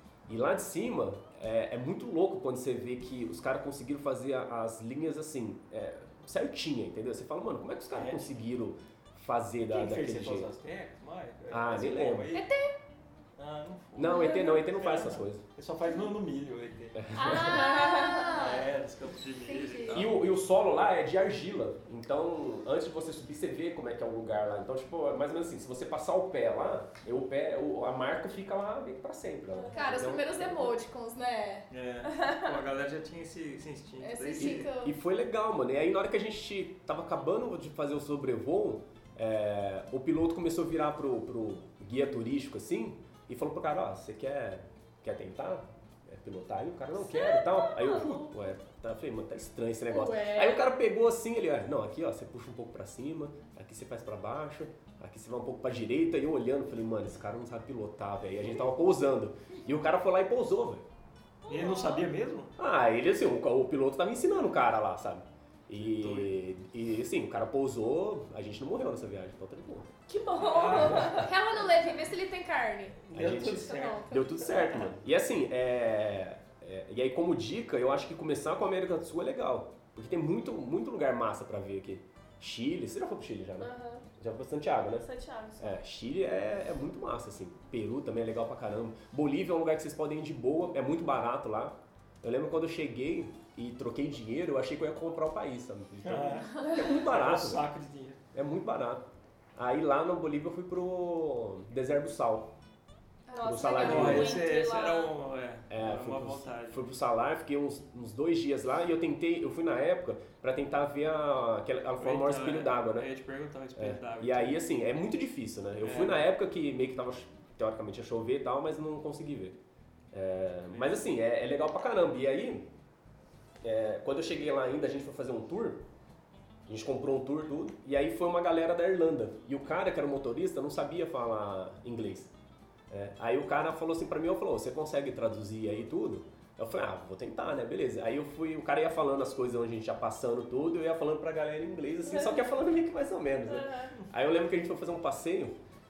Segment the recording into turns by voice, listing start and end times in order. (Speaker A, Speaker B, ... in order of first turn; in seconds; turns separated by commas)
Speaker A: 0.3-10.5, Speaker B: 7.9-8.2, Speaker B: 9.7-12.4, Speaker A: 11.5-12.3, Speaker C: 12.3-12.8, Speaker B: 13.4-17.1, Speaker A: 13.9-15.4, Speaker A: 16.9-17.7, Speaker C: 17.1-18.7, Speaker D: 17.5-18.3, Speaker B: 18.3-20.2, Speaker C: 19.4-20.0, Speaker A: 19.9-30.7, Speaker D: 29.5-30.1, Speaker C: 29.7-31.7, Speaker B: 31.7-34.7, Speaker D: 32.2-32.5, Speaker C: 34.0-34.9, Speaker A: 34.4-60.9, Speaker D: 47.0-48.5, Speaker C: 49.9-50.6, Speaker D: 61.4-62.1, Speaker B: 61.5-62.5, Speaker A: 62.6-69.9, Speaker B: 65.8-66.4, Speaker D: 70.1-71.3, Speaker B: 70.3-71.3, Speaker C: 71.2-74.5, Speaker B: 73.0-74.0, Speaker A: 73.1-85.1, Speaker D: 83.6-84.0, Speaker D: 85.0-85.8, Speaker A: 85.6-97.7, Speaker B: 96.0-98.2, Speaker A: 98.3-99.0, Speaker A: 99.5-102.5, Speaker C: 103.3-104.0, Speaker D: 103.3-105.1, Speaker A: 103.4-104.4, Speaker B: 103.8-106.9, Speaker A: 105.7-113.1, Speaker B: 112.0-114.6, Speaker A: 113.8-119.6, Speaker B: 115.8-116.3, Speaker A: 120.1-122.7, Speaker B: 120.7-121.0, Speaker A: 123.6-125.8, Speaker A: 126.7-132.3, Speaker A: 132.9-145.6, Speaker D: 142.0-142.5, Speaker D: 143.5-143.9